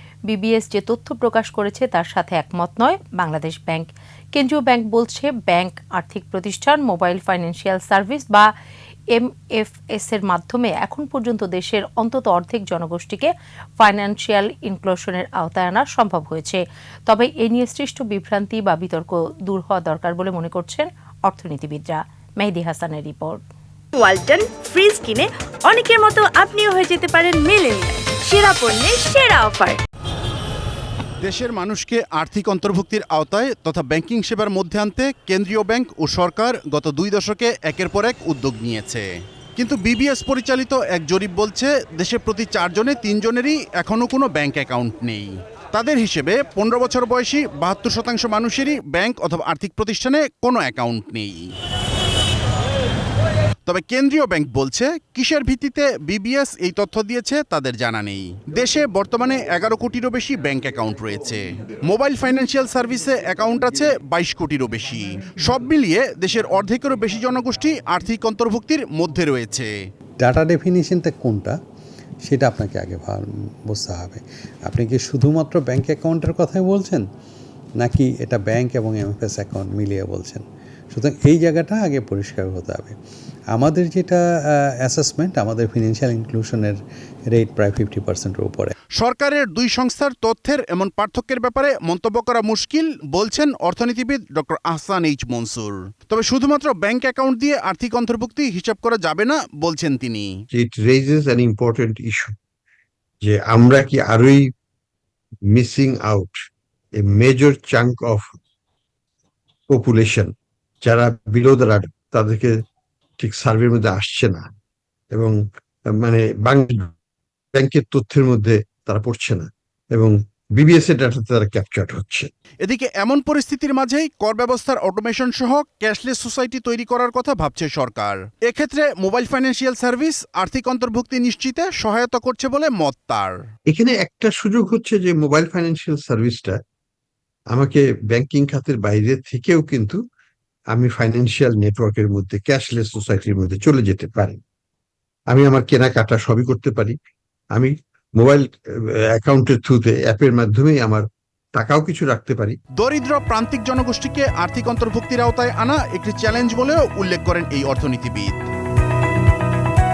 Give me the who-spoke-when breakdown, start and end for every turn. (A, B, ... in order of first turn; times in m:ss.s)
0:00.3-0:08.5 A
0:09.1-0:23.4 A
0:24.0-0:29.8 B
0:31.2-0:39.0 C
0:39.6-0:51.4 C
0:53.7-1:09.7 C
1:10.2-1:11.6 D
1:12.2-1:17.1 D
1:17.8-1:23.0 D
1:23.5-1:28.8 D
1:29.0-1:40.3 C
1:40.5-1:42.3 E
1:43.2-1:44.5 E
1:45.5-1:46.4 E
1:47.0-1:48.2 E
1:49.7-1:50.3 E
1:50.8-1:52.5 E
1:53.2-1:54.5 E
1:56.0-1:56.9 E
1:57.6-2:02.3 E
2:02.6-2:13.3 C
2:13.7-2:16.6 E
2:17.5-2:20.0 E
2:20.7-2:24.4 E
2:25.3-2:26.9 E
2:27.5-2:31.0 E
2:31.5-2:32.6 E
2:32.8-2:38.4 C